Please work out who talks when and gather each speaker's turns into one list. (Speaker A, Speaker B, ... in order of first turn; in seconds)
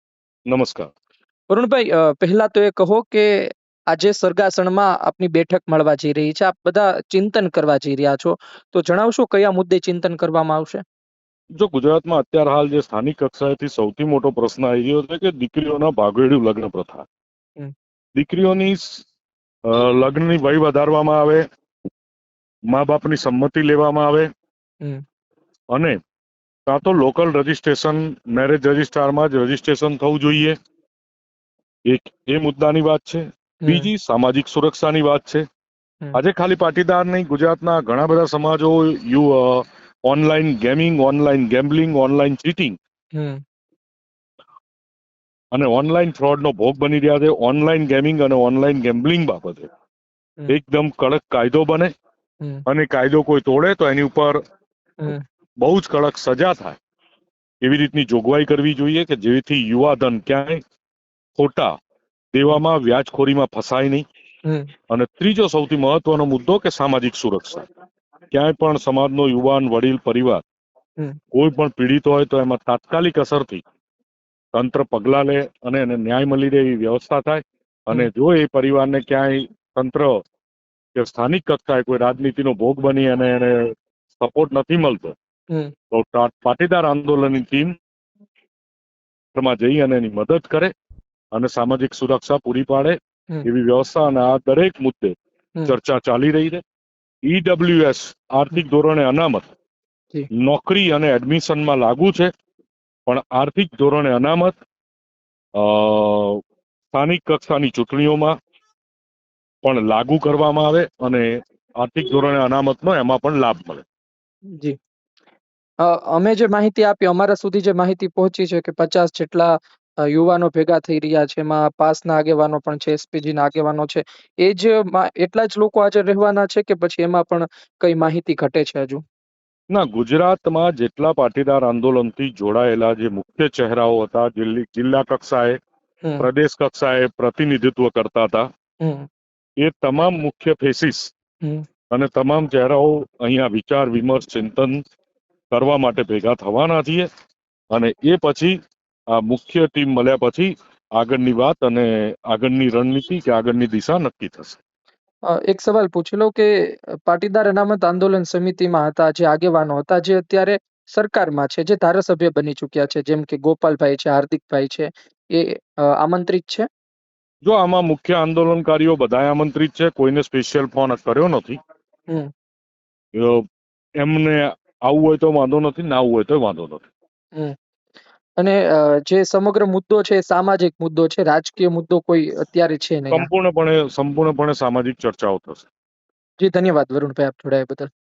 Speaker A: 0.5-0.9, 11.6-17.1, 18.2-19.0, 19.7-21.4, 22.7-24.3, 25.7-26.0, 26.7-30.6, 31.9-35.4, 36.1-42.8, 45.5-49.7, 50.5-51.9, 52.7-54.4, 55.6-56.8, 57.6-60.6, 61.4-61.7, 62.3-64.0, 64.9-67.7, 68.3-70.4, 71.3-73.6, 74.5-80.2, 81.0-85.2, 85.9-87.7, 89.3-90.7, 91.3-95.2, 95.7-96.6, 97.3-99.5, 100.3-102.3, 103.1-104.6, 105.6-106.4, 106.9-108.3, 109.6-113.9, 129.7-135.6, 136.2-138.5, 139.6-141.1, 141.9-144.8, 145.5-147.1, 147.7-148.6, 149.1-154.6, 167.4-171.6, 173.2-173.4, 174.0-176.9, 183.1-185.7
Speaker B: 1.5-10.8, 33.6-33.9, 43.1-43.4, 64.5-64.7, 115.8-129.0, 138.8-139.1, 155.3-166.7, 178.4-183.3, 186.4-187.9